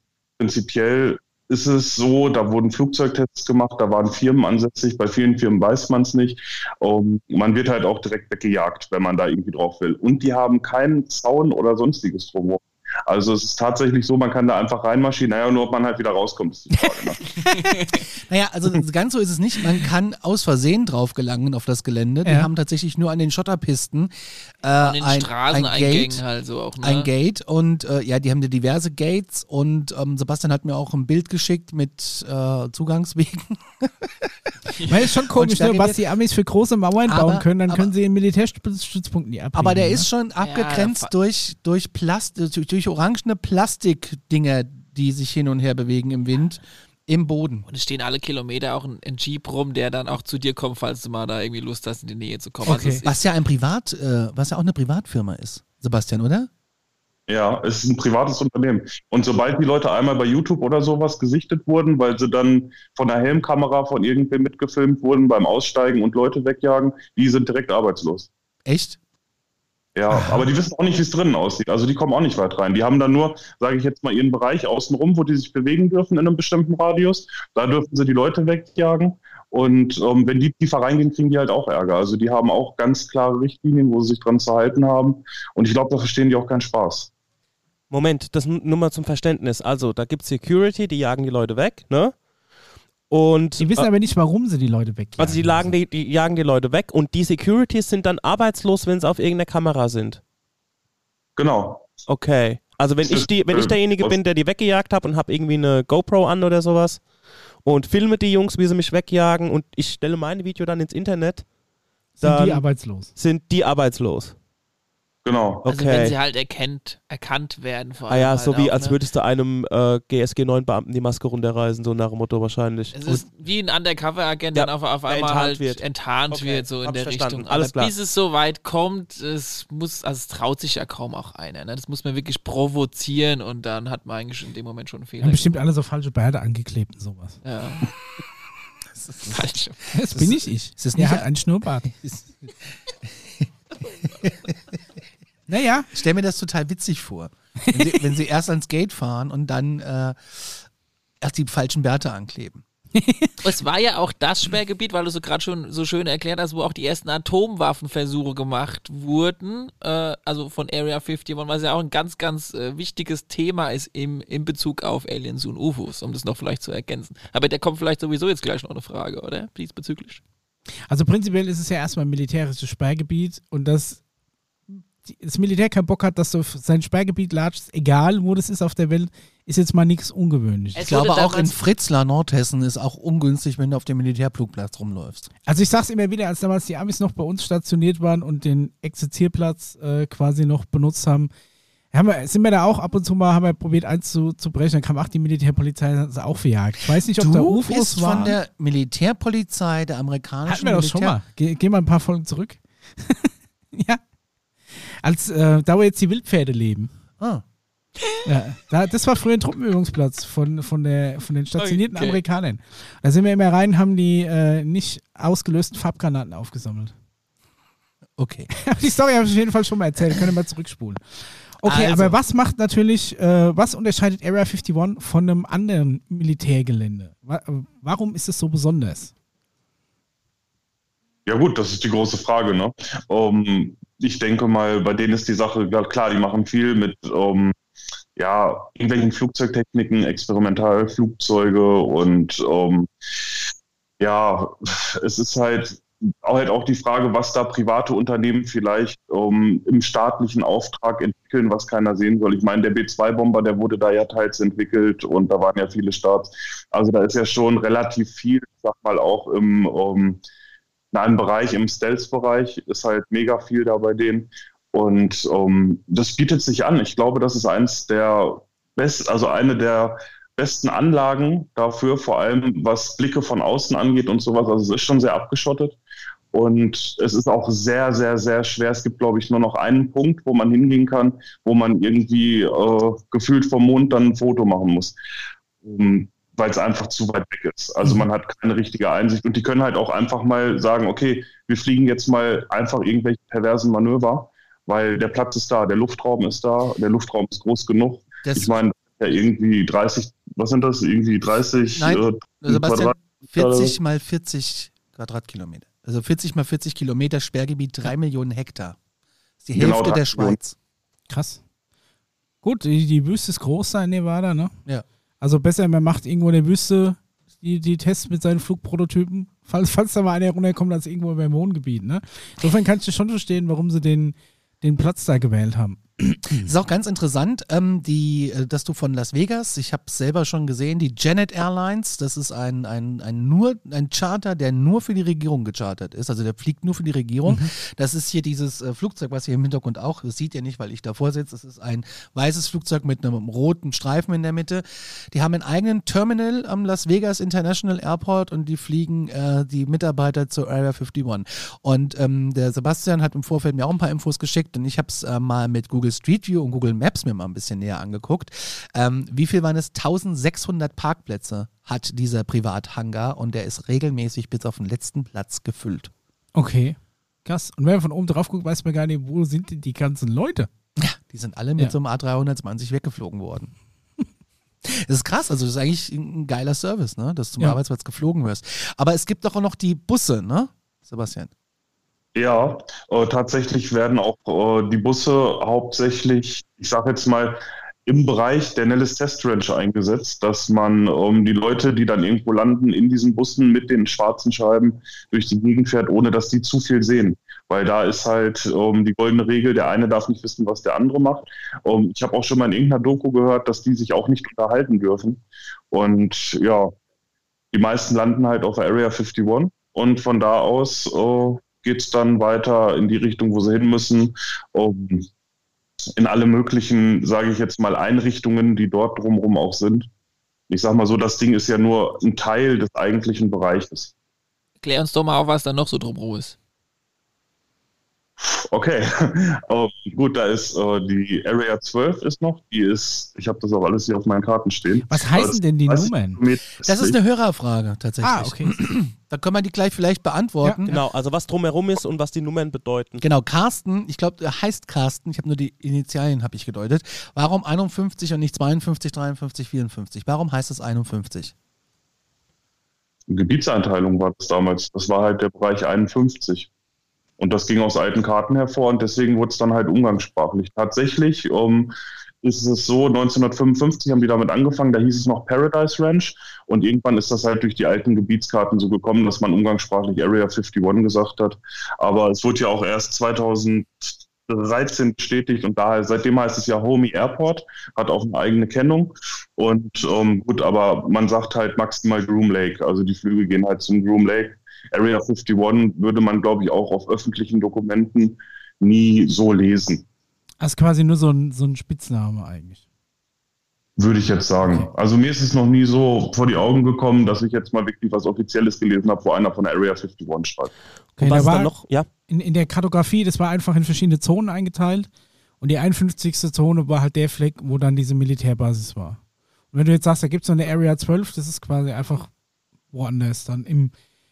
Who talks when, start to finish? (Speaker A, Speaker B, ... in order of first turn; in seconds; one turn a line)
Speaker A: 0.4-17.2
Speaker B: 17.4-18.0
Speaker C: 18.3-26.2
Speaker B: 24.8-27.1
Speaker C: 26.8-34.3
Speaker D: 34.9-40.1
Speaker C: 35.2-36.0
Speaker C: 37.0-37.9
Speaker C: 39.5-47.6
Speaker B: 40.4-41.1
Speaker B: 47.7-53.2
Speaker C: 52.6-56.5
Speaker A: 57.3-68.3
Speaker C: 68.6-69.0
Speaker A: 69.9-87.1
Speaker D: 70.1-70.5
Speaker E: 87.9-92.2
Speaker E: 93.1-93.9
Speaker D: 93.6-95.7
Speaker E: 95.2-100.2
Speaker A: 101.3-101.9
Speaker E: 102.1-107.1
Speaker A: 103.0-104.2
Speaker E: 107.6-111.5
Speaker D: 112.2-113.1
Speaker E: 112.2-114.3
Speaker A: 115.2-115.6
Speaker E: 115.6-116.1
Speaker B: 115.7-119.0
Speaker E: 118.1-123.0
Speaker B: 122.9-135.5
Speaker E: 124.5-127.9
Speaker D: 135.2-137.4
Speaker B: 137.4-137.9
Speaker C: 139.0-139.4
Speaker B: 139.3-139.8
Speaker D: 139.9-141.9
Speaker C: 140.1-143.5
Speaker D: 145.5-145.9
Speaker C: 145.9-150.6
Speaker D: 147.7-147.9
Speaker C: 151.2-152.6
Speaker D: 152.9-153.3
Speaker B: 153.4-170.2
Speaker D: 170.9-174.0
Speaker D: 174.7-180.8
Speaker B: 180.7-181.6
Speaker C: 180.8-185.3
Speaker D: 185.4-191.3
Speaker D: 191.9-198.4
Speaker C: 197.1-201.2
Speaker D: 200.5-204.0
Speaker D: 204.7-206.9
Speaker C: 207.2-207.4
Speaker D: 208.2-216.9
Speaker B: 211.6-212.2
Speaker C: 218.2-218.5
Speaker D: 218.7-221.0
Speaker D: 221.6-229.1
Speaker C: 221.6-222.2
Speaker A: 231.2-237.5
Speaker A: 238.2-242.9
Speaker A: 244.0-260.2
Speaker A: 260.9-275.8
Speaker A: 276.3-284.9
Speaker A: 285.6-303.8
Speaker C: 298.2-298.6
Speaker C: 301.8-308.8
Speaker C: 309.4-310.6
Speaker A: 309.5-310.4
Speaker D: 311.1-311.4
Speaker D: 312.4-314.5
Speaker D: 315.2-326.5
Speaker C: 326.4-365.9
Speaker D: 366.3-370.5
Speaker C: 370.8-373.5
Speaker C: 374.6-381.3
Speaker A: 382.1-406.7
Speaker A: 407.5-415.1
Speaker A: 415.9-419.9
Speaker A: 420.5-423.9
Speaker B: 424.6-426.3
Speaker A: 428.2-436.9
Speaker D: 434.9-436.2
Speaker C: 436.6-440.7
Speaker D: 438.0-438.5
Speaker D: 440.4-440.8
Speaker E: 440.7-443.0
Speaker C: 443.0-451.3
Speaker A: 453.1-456.5
Speaker A: 457.2-461.7
Speaker A: 462.2-489.8
Speaker D: 490.4-492.6
Speaker A: 493.8-500.5
Speaker E: 501.0-501.9
Speaker D: 501.0-501.5
Speaker D: 502.1-504.9
Speaker D: 505.4-509.0
Speaker D: 509.5-512.1
Speaker D: 512.7-513.7